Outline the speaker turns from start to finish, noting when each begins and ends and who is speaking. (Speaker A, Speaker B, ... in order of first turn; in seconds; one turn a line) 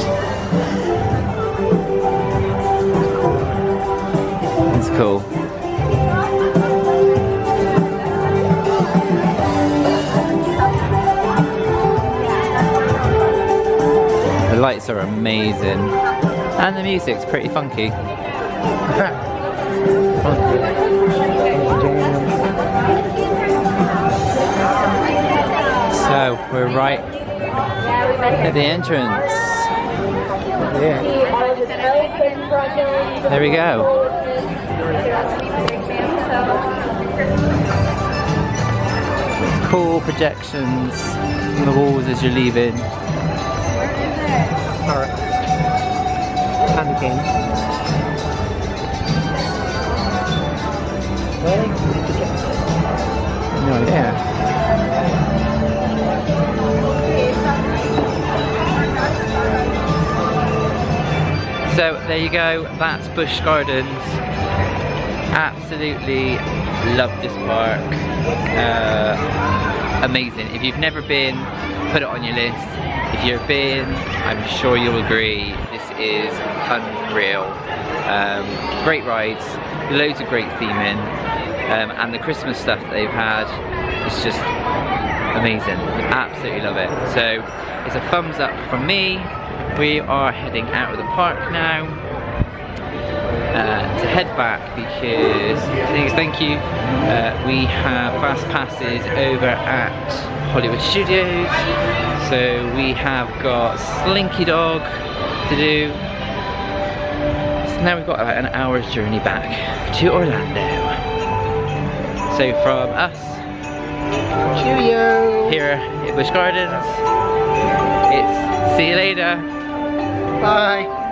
Speaker A: 4.7-5.3
Speaker A: 14.5-15.9
Speaker A: 16.6-18.0
Speaker B: 18.9-19.2
Speaker B: 20.2-20.8
Speaker B: 21.5-22.5
Speaker A: 25.9-27.1
Speaker A: 28.4-29.7
Speaker B: 30.6-31.3
Speaker A: 33.2-33.9
Speaker A: 39.6-42.9
Speaker B: 44.8-45.2
Speaker B: 46.7-47.3
Speaker B: 51.4-52.7
Speaker A: 53.6-54.2
Speaker A: 61.6-64.2
Speaker A: 65.3-69.2
Speaker A: 70.0-81.1
Speaker A: 81.7-84.5
Speaker A: 85.3-92.0
Speaker A: 93.5-106.0
Speaker A: 107.6-111.0
Speaker A: 112.3-113.5
Speaker B: 114.4-115.6
Speaker A: 115.5-117.0
Speaker A: 118.1-119.5
Speaker B: 120.4-120.9